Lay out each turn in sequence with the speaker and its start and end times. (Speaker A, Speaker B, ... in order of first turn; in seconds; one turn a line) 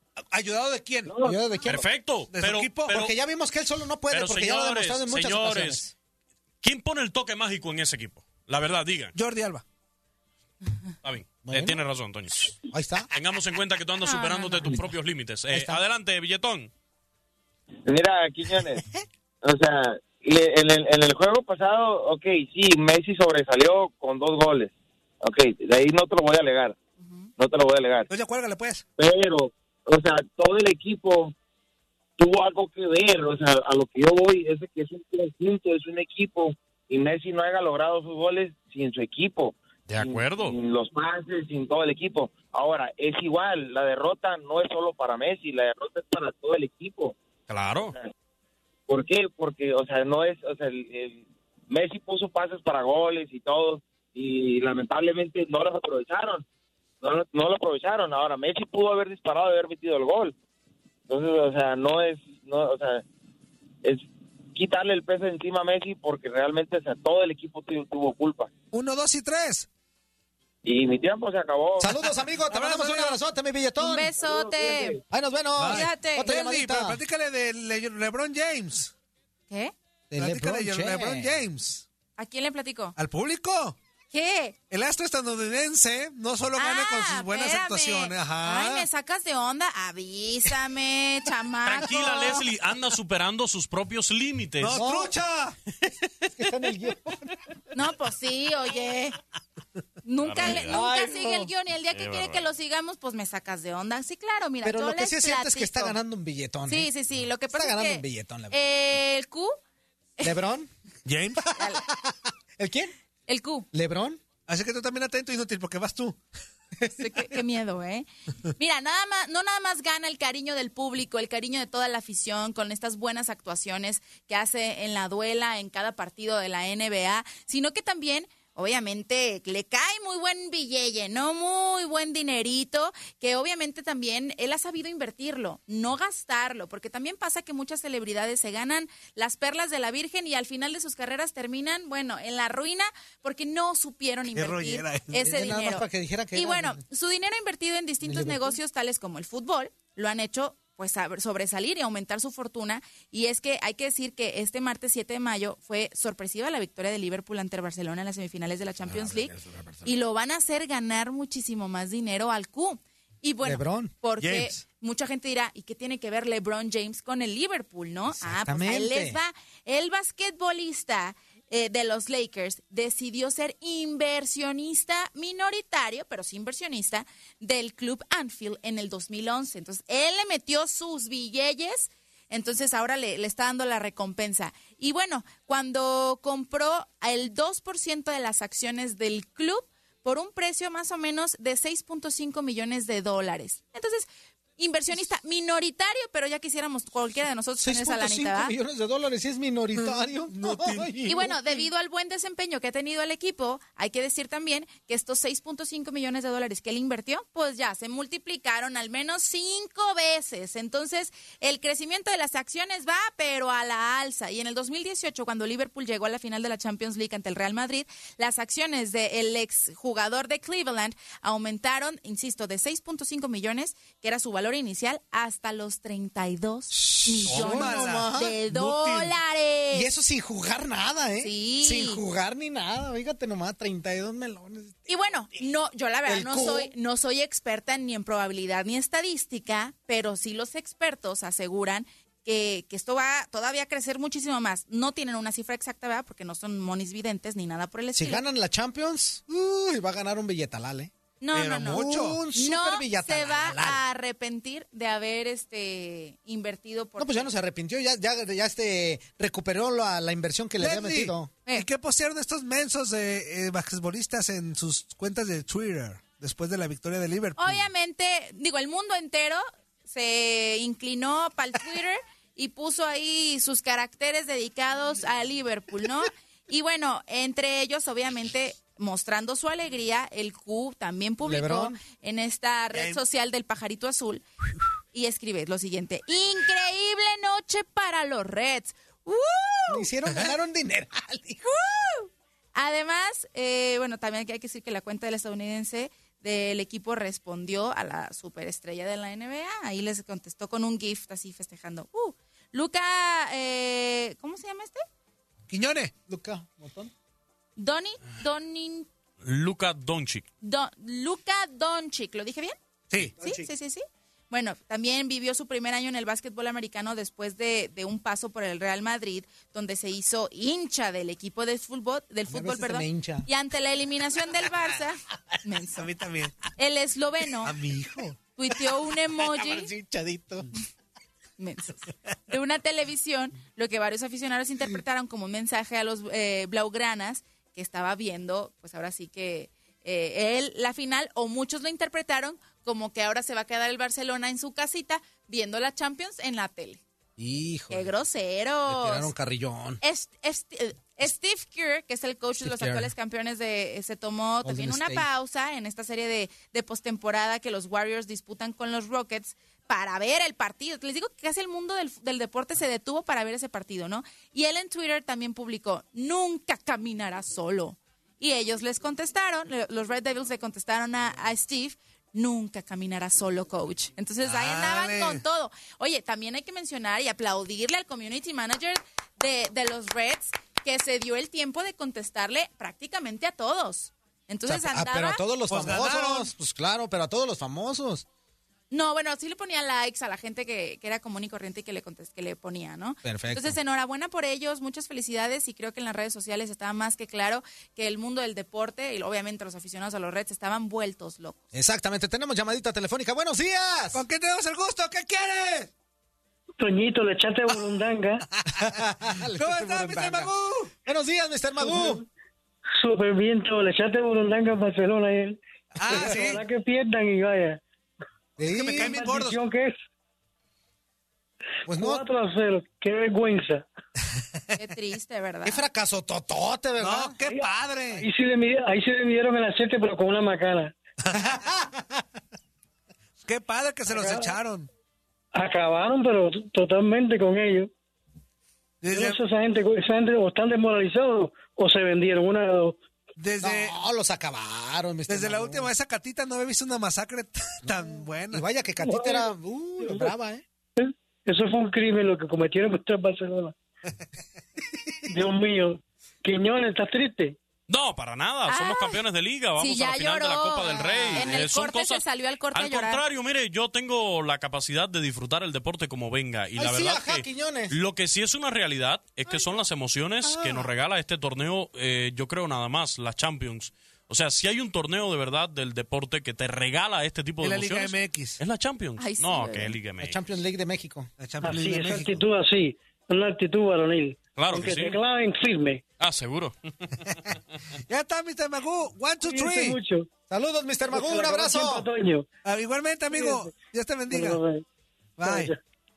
Speaker A: 0.3-1.2
Speaker B: 1.1-1.4
Speaker C: 1.2-1.9
Speaker D: 1.6-3.1
Speaker A: 2.3-2.9
Speaker C: 2.9-5.9
Speaker D: 4.1-5.9
Speaker D: 6.6-9.2
Speaker A: 9.2-9.6
Speaker D: 11.0-12.5
Speaker C: 11.4-11.8
Speaker C: 12.7-13.1
Speaker D: 13.1-16.7
Speaker E: 14.0-14.6
Speaker C: 15.5-15.8
Speaker B: 17.9-18.8
Speaker B: 19.4-26.8
Speaker E: 27.0-27.3
Speaker B: 27.4-28.1
Speaker A: 28.1-28.9
Speaker B: 29.0-31.3
Speaker B: 32.2-47.2
Speaker D: 39.9-40.6
Speaker D: 47.5-48.0
Speaker B: 48.9-56.5
Speaker B: 57.0-60.4
Speaker B: 61.1-63.0
Speaker B: 64.5-68.5
Speaker A: 68.7-69.7
Speaker B: 70.6-72.0
Speaker C: 71.8-74.1
Speaker A: 72.5-73.2
Speaker E: 73.8-75.0
Speaker B: 74.2-75.0
Speaker C: 75.1-77.0
Speaker A: 75.6-78.9
Speaker E: 75.7-76.3
Speaker C: 80.1-81.4
Speaker A: 80.2-81.8
Speaker E: 82.2-83.0
Speaker A: 83.0-83.8
Speaker E: 84.1-84.5
Speaker A: 84.7-88.9
Speaker E: 86.5-92.3
Speaker D: 91.7-94.8
Speaker A: 94.6-95.6
Speaker C: 94.7-95.1
Speaker C: 96.2-97.3
Speaker E: 97.7-99.1
Speaker E: 100.0-106.0
Speaker D: 100.2-100.8
Speaker C: 100.4-101.5
Speaker D: 101.9-102.4
Speaker C: 104.6-106.9
Speaker E: 106.7-109.5
Speaker C: 107.5-108.6
Speaker C: 110.2-110.7
Speaker A: 111.0-111.5
Speaker C: 111.5-112.9
Speaker E: 111.6-111.8
Speaker E: 113.3-113.7
Speaker C: 113.7-114.2
Speaker A: 114.5-116.2
Speaker E: 117.0-194.1
Speaker A: 144.3-145.1
Speaker C: 145.1-146.8
Speaker C: 148.0-148.6
Speaker C: 158.9-159.9
Speaker C: 163.4-163.9
Speaker A: 164.2-164.6
Speaker C: 168.1-169.2
Speaker E: 194.6-198.5
Speaker C: 197.6-201.7
Speaker A: 199.8-200.9
Speaker E: 201.1-229.9
Speaker C: 226.7-228.4
Speaker A: 227.2-229.2
Speaker C: 229.7-234.8
Speaker E: 231.2-232.0
Speaker E: 234.9-248.2
Speaker C: 236.1-236.7
Speaker C: 247.9-250.9
Speaker E: 251.2-257.3
Speaker A: 251.3-252.2
Speaker C: 251.6-253.8
Speaker C: 257.0-261.3
Speaker A: 260.6-267.7
Speaker E: 267.4-284.2
Speaker C: 281.2-281.8
Speaker A: 282.7-283.0
Speaker E: 284.9-289.9
Speaker C: 289.7-291.4
Speaker E: 291.4-304.8
Speaker A: 305.5-305.9
Speaker C: 306.1-306.9
Speaker E: 307.6-308.9
Speaker D: 309.2-310.3
Speaker E: 310.4-312.6
Speaker C: 313.0-313.5
Speaker E: 313.2-325.8
Speaker C: 322.3-323.3
Speaker A: 325.8-326.4
Speaker E: 326.6-327.5
Speaker A: 327.4-328.2
Speaker E: 328.4-329.7
Speaker C: 329.2-330.5
Speaker E: 331.4-346.8
Speaker C: 347.2-348.0
Speaker E: 347.7-349.1
Speaker C: 348.7-349.8
Speaker E: 349.8-385.2
Speaker C: 352.4-352.9
Speaker C: 354.4-355.1
Speaker A: 374.2-375.2
Speaker C: 384.5-388.1
Speaker A: 385.5-386.3
Speaker E: 388.7-401.4
Speaker C: 393.0-393.6
Speaker C: 401.5-404.0
Speaker A: 403.9-405.7
Speaker F: 406.6-408.3
Speaker A: 408.3-408.8
Speaker C: 408.5-410.3
Speaker A: 409.4-410.7
Speaker C: 410.9-412.0
Speaker F: 411.6-412.0
Speaker F: 412.8-417.6
Speaker A: 415.8-416.4
Speaker C: 418.4-419.0
Speaker A: 418.5-419.4
Speaker F: 418.6-419.8
Speaker C: 421.7-422.1
Speaker F: 421.7-423.6
Speaker A: 424.2-424.6
Speaker E: 424.6-425.6
Speaker C: 425.4-427.1
Speaker A: 426.8-428.1
Speaker F: 427.3-430.8
Speaker A: 431.1-431.4
Speaker C: 431.1-431.8
Speaker A: 433.2-434.7
Speaker F: 433.9-434.3
Speaker F: 435.3-437.7
Speaker A: 438.8-439.2
Speaker F: 438.9-442.8
Speaker A: 443.2-443.7
Speaker C: 443.4-445.7
Speaker A: 445.1-448.4
Speaker C: 447.6-450.4
Speaker F: 448.8-450.1
Speaker F: 450.8-453.6
Speaker F: 455.1-457.4
Speaker D: 457.7-480.2
Speaker E: 458.5-459.0
Speaker E: 459.6-463.0
Speaker C: 460.8-461.3
Speaker C: 466.6-467.7
Speaker C: 470.2-470.7
Speaker A: 477.4-478.4
Speaker E: 479.0-479.8
Speaker C: 480.0-481.1
Speaker A: 481.2-482.2
Speaker F: 481.4-485.8
Speaker D: 484.4-485.0
Speaker D: 486.0-486.9
Speaker A: 487.9-489.8
Speaker F: 489.2-490.1
Speaker C: 490.3-491.9
Speaker F: 490.9-492.3
Speaker A: 492.4-494.4
Speaker F: 493.1-493.5
Speaker F: 494.1-494.6
Speaker A: 495.2-495.5
Speaker F: 495.2-495.6